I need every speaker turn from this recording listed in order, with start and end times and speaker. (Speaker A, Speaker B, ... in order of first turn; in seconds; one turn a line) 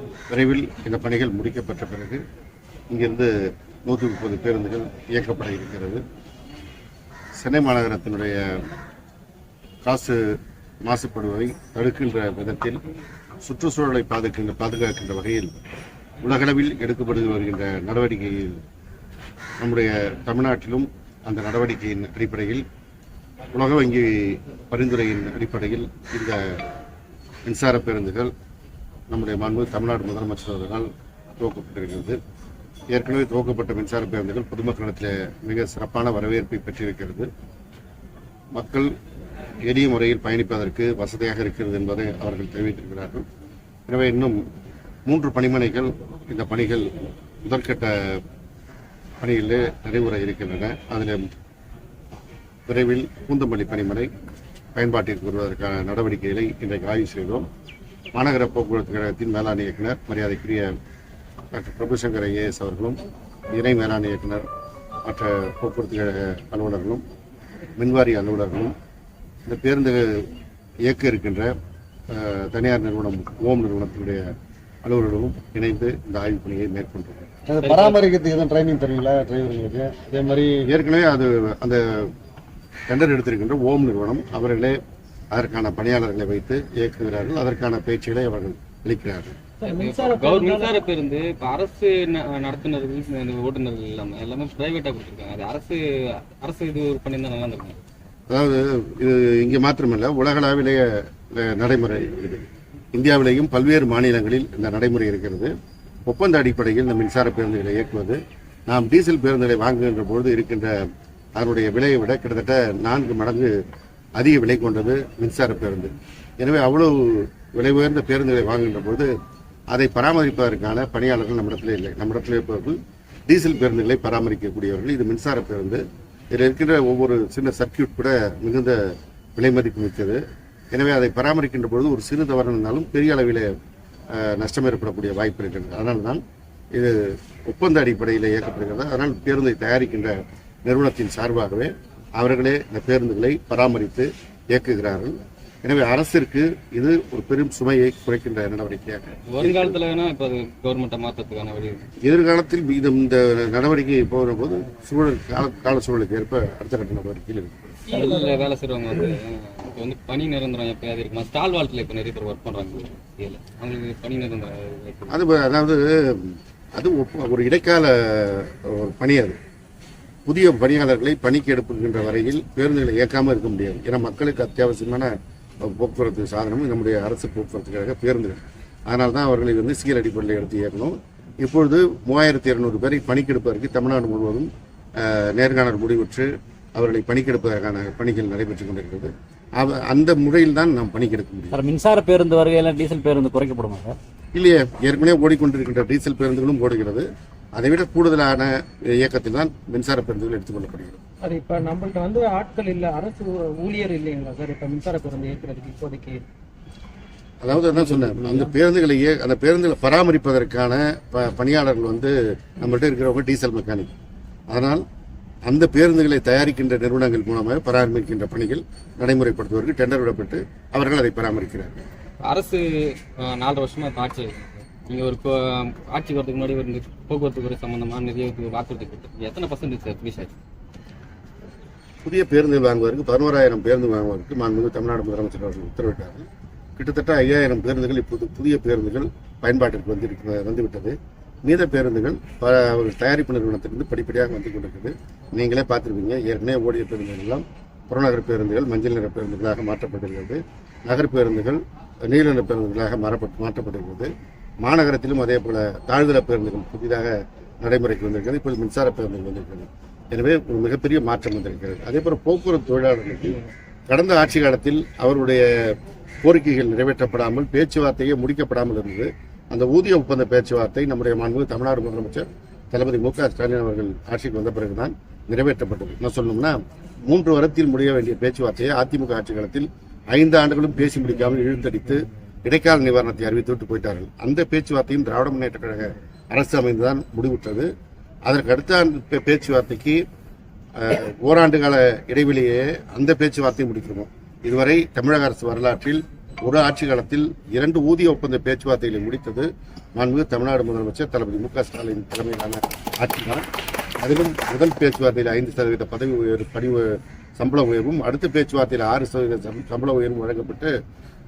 Speaker A: 0.3-2.2
Speaker A: 2.9-3.3
Speaker A: 3.9-6.0
Speaker A: 7.4-8.7
Speaker A: 9.8-10.2
Speaker A: 10.8-12.8
Speaker A: 13.4-15.5
Speaker A: 16.2-18.6
Speaker A: 19.6-22.6
Speaker A: 23.5-26.6
Speaker A: 27.4-28.3
Speaker A: 29.1-32.2
Speaker A: 32.9-37.3
Speaker A: 38.5-38.9
Speaker A: 39.6-43.2
Speaker A: 43.9-44.4
Speaker A: 45.1-46.9
Speaker A: 47.4-48.2
Speaker A: 49.2-51.2
Speaker A: 52.7-54.1
Speaker A: 54.8-57.5
Speaker A: 58.1-60.7
Speaker A: 61.5-63.0
Speaker A: 63.5-64.5
Speaker A: 65.0-67.0
Speaker A: 67.8-68.7
Speaker A: 69.5-70.3
Speaker A: 70.9-71.5
Speaker A: 72.1-74.3
Speaker A: 74.8-77.3
Speaker B: 77.5-80.4
Speaker C: 77.6-78.0
Speaker A: 80.5-82.1
Speaker A: 82.9-84.8
Speaker A: 85.3-89.3
Speaker D: 89.7-90.7
Speaker C: 89.7-95.8
Speaker C: 96.4-97.8
Speaker A: 98.3-105.5
Speaker A: 106.0-110.7
Speaker A: 111.3-113.5
Speaker A: 114.2-119.1
Speaker A: 119.7-122.8
Speaker A: 123.3-130.2
Speaker A: 130.7-133.5
Speaker A: 134.1-136.2
Speaker A: 136.7-149.8
Speaker C: 149.3-151.9
Speaker A: 152.0-157.9
Speaker C: 157.9-165.2
Speaker A: 165.1-169.4
Speaker A: 170.3-191.6
Speaker E: 191.5-193.6
Speaker A: 194.3-201.0
Speaker D: 201.2-206.2
Speaker A: 207.4-213.9
Speaker D: 207.7-208.5
Speaker A: 214.5-214.8
Speaker A: 215.5-221.8
Speaker C: 222.2-230.3
Speaker A: 232.0-236.3
Speaker A: 236.8-287.7
Speaker A: 288.3-290.0
Speaker A: 290.8-303.4
Speaker A: 304.0-310.7